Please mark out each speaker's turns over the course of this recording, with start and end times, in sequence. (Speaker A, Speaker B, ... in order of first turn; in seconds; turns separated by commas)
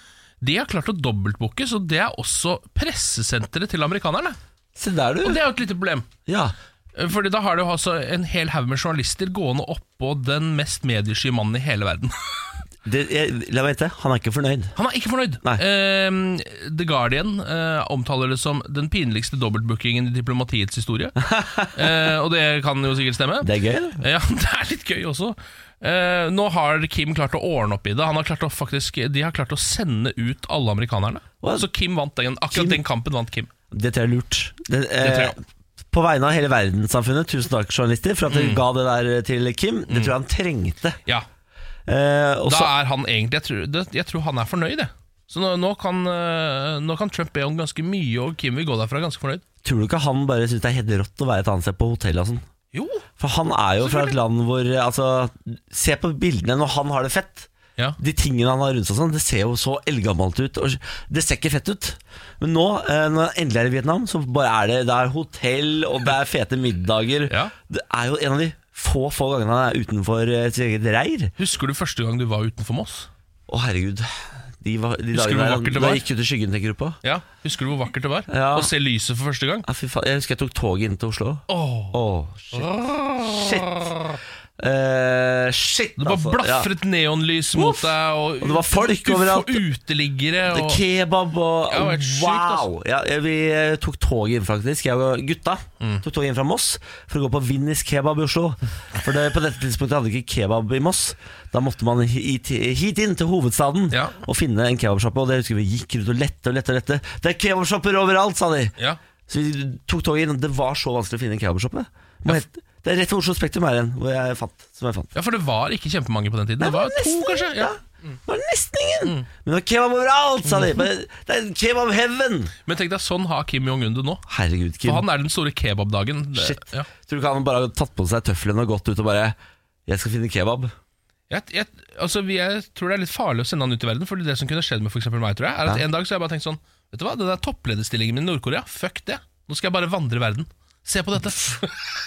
Speaker A: 0.4-4.4, Speaker B: 4.8-5.4, Speaker A: 5.2-6.1, Speaker B: 6.3-6.5, Speaker A: 7.0-12.2, Speaker B: 12.8-14.8, Speaker A: 14.8-21.2, Speaker B: 21.2-21.9, Speaker A: 21.7-33.5, Speaker B: 23.4-24.0, Speaker B: 31.4-31.7, Speaker B: 32.5-32.8, Speaker B: 33.7-35.4, Speaker A: 35.0-35.4, Speaker B: 35.9-41.0, Speaker A: 38.3-38.6, Speaker A: 39.9-40.1, Speaker B: 41.9-42.7, Speaker A: 42.5-49.4, Speaker B: 49.6-52.4, Speaker A: 52.7-53.0, Speaker B: 53.2-71.3, Speaker A: 53.8-54.2, Speaker A: 67.3-67.5, Speaker A: 71.4-73.1, Speaker B: 73.5-74.1, Speaker B: 74.6-77.0, Speaker A: 75.1-76.0, Speaker A: 77.0-79.7, Speaker B: 78.3-78.7, Speaker B: 79.7-83.9, Speaker A: 81.5-82.0, Speaker A: 82.5-83.9, Speaker B: 84.6-86.7, Speaker A: 86.0-90.8, Speaker B: 87.5-89.6, Speaker B: 90.5-108.8, Speaker A: 91.7-92.7, Speaker A: 103.9-104.2, Speaker B: 109.3-115.1, Speaker A: 115.2-118.2, Speaker B: 116.6-122.5, Speaker A: 120.5-120.8, Speaker A: 122.7-124.2, Speaker B: 124.3-125.1, Speaker A: 124.8-126.9, Speaker B: 126.3-129.4, Speaker B: 129.9-130.7, Speaker A: 131.3-141.9